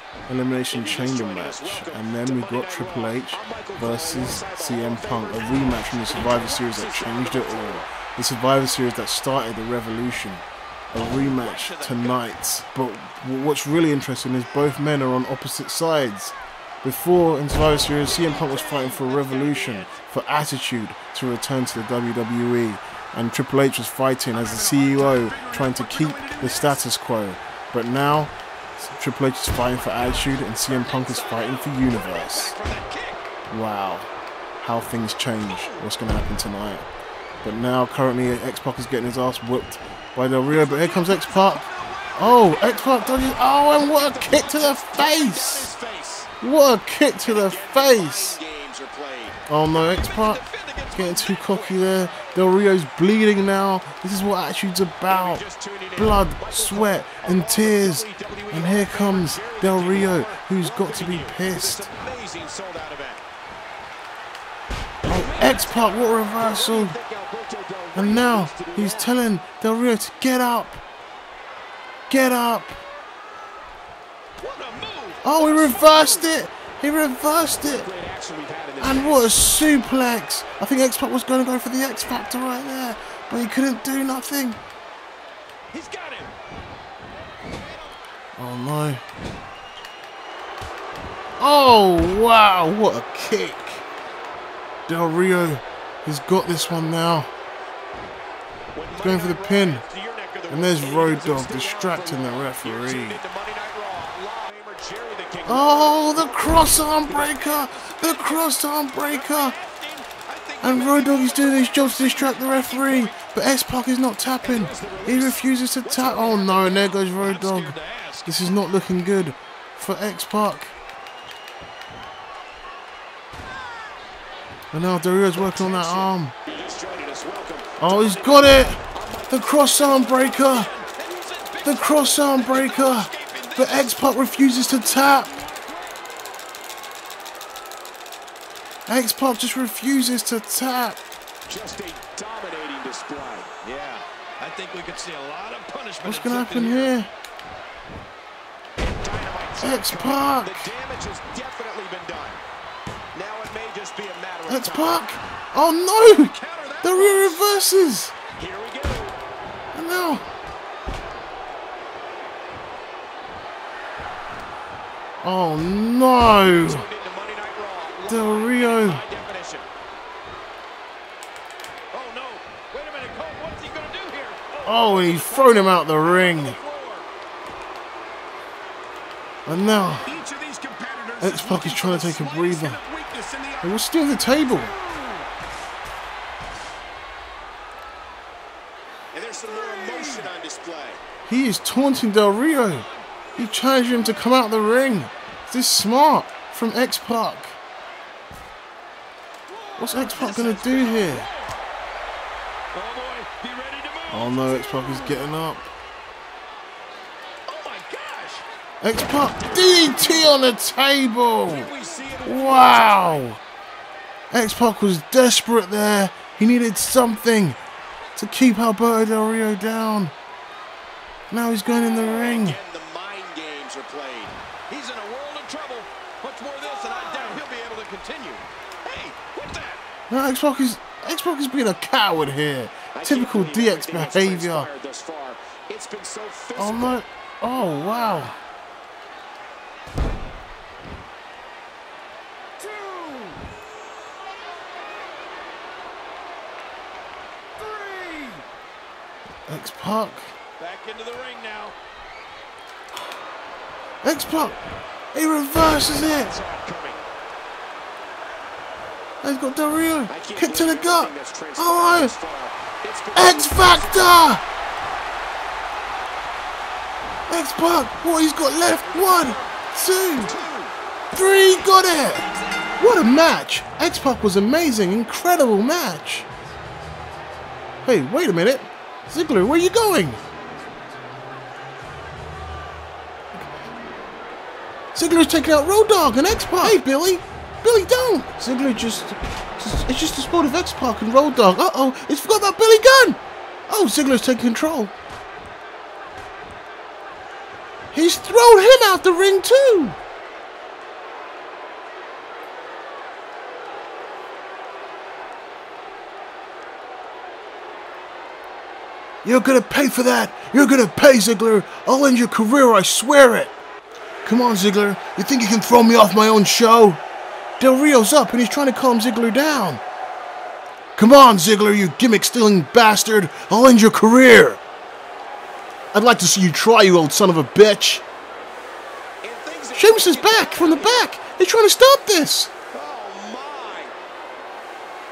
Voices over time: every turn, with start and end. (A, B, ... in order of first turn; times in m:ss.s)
0:00.3-0:32.6 A
0:00.8-0:07.5 B
0:06.3-0:07.8 C
0:11.4-0:12.2 B
0:18.2-0:19.9 B
0:24.4-0:26.8 B
0:30.5-0:33.3 B
0:33.5-0:36.9 A
0:35.4-0:35.8 B
0:37.4-0:41.6 A
0:40.5-0:45.6 B
0:42.2-0:45.8 A
0:45.1-0:46.3 C
0:46.4-0:48.4 A
0:47.3-0:51.9 B
0:49.5-0:50.4 A
0:50.9-0:55.4 A
0:55.2-0:56.3 C
0:55.3-1:02.0 B
0:56.0-1:01.9 A
1:01.4-1:03.2 C
1:05.0-1:07.0 A
1:05.2-1:07.1 B
1:06.8-1:09.1 C
1:08.0-1:10.8 A
1:12.1-1:12.8 A
1:14.4-1:16.3 B
1:15.2-1:17.9 A
1:17.6-1:19.2 C
1:18.8-1:24.6 A
1:25.7-1:26.0 C
1:25.8-1:26.3 B
1:28.4-1:29.0 A
1:31.4-1:33.8 A
1:34.9-1:37.3 A
1:38.9-1:44.0 B
1:39.0-1:39.8 A
1:39.9-1:40.7 C
1:40.5-1:43.2 A
1:43.3-1:45.7 C
1:45.4-1:48.5 B
1:45.5-1:49.6 A
1:49.1-1:53.2 B
1:50.6-2:00.7 A
1:54.4-1:58.3 B
2:04.7-2:06.4 A
2:05.6-2:11.2 C
2:07.8-2:10.7 A
2:10.2-2:14.0 B
2:11.6-2:15.4 A
2:15.2-2:15.8 B
2:15.2-2:15.8 C
2:18.9-2:21.0 A
2:21.5-2:23.6 C
2:23.6-2:27.0 B
2:26.0-2:27.1 A
2:28.8-2:32.4 C
2:29.6-2:30.7 A
2:29.8-2:30.9 B
2:33.2-2:34.8 B
2:34.4-2:34.7 C
2:34.5-2:38.2 A
2:36.4-2:37.4 B
2:38.4-2:39.2 C
2:39.7-2:40.2 A
2:45.2-2:46.9 A
2:46.6-2:49.7 C
2:47.9-2:49.5 B
2:48.1-2:49.0 A
2:51.9-2:57.1 B
2:54.6-2:56.6 A
2:54.8-2:55.1 C
2:59.5-3:00.2 A
3:00.1-3:03.6 B
3:01.2-3:02.8 A
3:03.6-3:04.8 A
3:09.1-3:11.0 C
3:09.3-3:10.3 B
3:11.2-3:17.6 A
3:19.5-3:21.6 B
3:19.8-3:21.3 A
3:22.7-3:25.2 B
3:24.1-3:25.7 A
3:27.5-3:28.2 C
3:27.8-3:28.4 B
3:28.8-3:31.7 A
3:31.6-3:33.2 B
3:32.2-3:33.4 A
3:34.3-3:37.6 A
3:38.2-3:40.1 A
3:41.3-3:42.6 A
3:41.8-3:43.0 B
3:42.8-3:44.1 C
3:43.6-3:49.8 B
3:47.0-3:47.6 C
3:50.1-3:54.7 A
3:53.0-3:55.3 B
3:53.6-3:56.8 C
3:56.6-3:58.4 A
4:02.6-4:03.4 C
4:07.6-4:08.4 B
4:09.5-4:10.3 A
4:10.6-4:11.8 B
4:14.0-4:14.6 A
4:15.1-4:16.4 A
4:16.2-4:17.0 C
4:19.2-4:22.2 A
4:20.1-4:23.7 C
4:20.3-4:20.7 B
4:23.2-4:24.4 A
4:23.7-4:24.1 B
4:27.3-4:30.4 A
4:28.8-4:29.5 B
4:30.2-4:30.7 C
4:31.1-4:36.3 A
4:32.2-4:32.7 C
4:37.8-4:40.2 A
4:44.9-4:54.9 A
4:57.9-5:00.0 A
5:09.2-5:13.6 A
5:14.2-5:17.0 A
5:17.6-5:19.8 A
5:21.0-5:24.6 A
5:25.9-5:28.0 A
5:29.2-5:31.1 C
5:29.7-5:32.5 A
5:32.7-5:33.9 C